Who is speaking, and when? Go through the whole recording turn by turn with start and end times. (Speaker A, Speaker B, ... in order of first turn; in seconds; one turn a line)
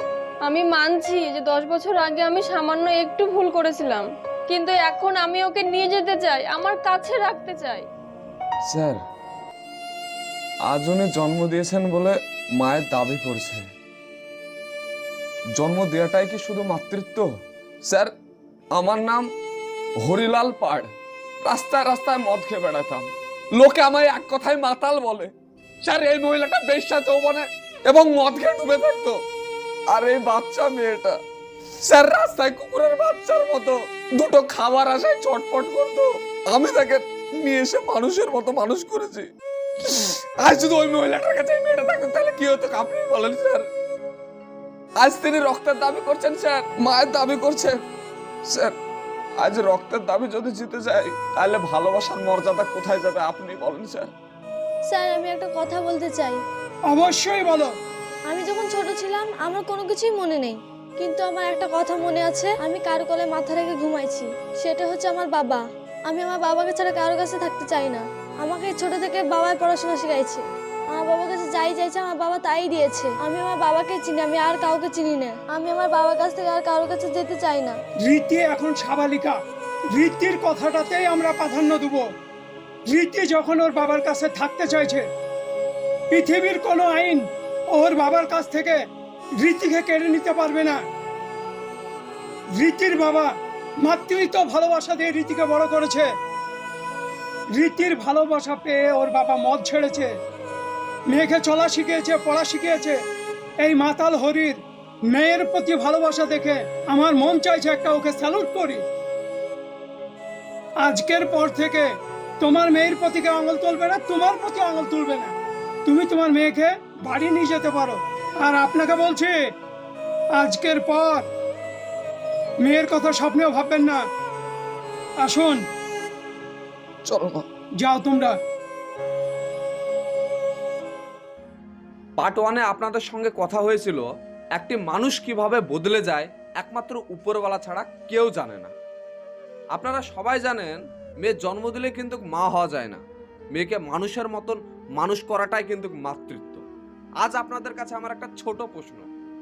Speaker A: 0.4-7.9
Speaker B: 8.6-9.0
Speaker B: 10.6-13.7
Speaker B: 15.6-18.1
Speaker B: 18.7-19.3
Speaker B: 20.0-20.9
Speaker B: 21.4-25.3
Speaker B: 25.8-29.2
Speaker B: 29.9-31.2
Speaker B: 31.8-39.3
Speaker B: 39.8-43.6
Speaker B: 45.0-47.8
Speaker B: 48.4-48.8
Speaker B: 49.4-54.1
Speaker C: 54.9-56.4
Speaker D: 56.9-57.7
Speaker C: 58.3-77.8
Speaker D: 78.0-79.4
Speaker D: 79.9-82.0
Speaker D: 82.9-85.1
Speaker D: 86.1-88.8
Speaker D: 89.4-90.8
Speaker D: 92.5-93.3
Speaker D: 93.8-96.1
Speaker D: 97.5-100.1
Speaker D: 101.1-103.0
Speaker D: 103.6-108.8
Speaker D: 110.8-111.9
Speaker D: 112.4-115.3
Speaker D: 115.8-119.3
Speaker D: 120.3-121.3
Speaker D: 122.6-124.0
Speaker D: 125.2-125.6
Speaker B: 127.0-127.5
Speaker D: 127.8-128.3
Speaker B: 132.2-138.7
Speaker B: 139.7-146.6
Speaker B: 147.2-149.1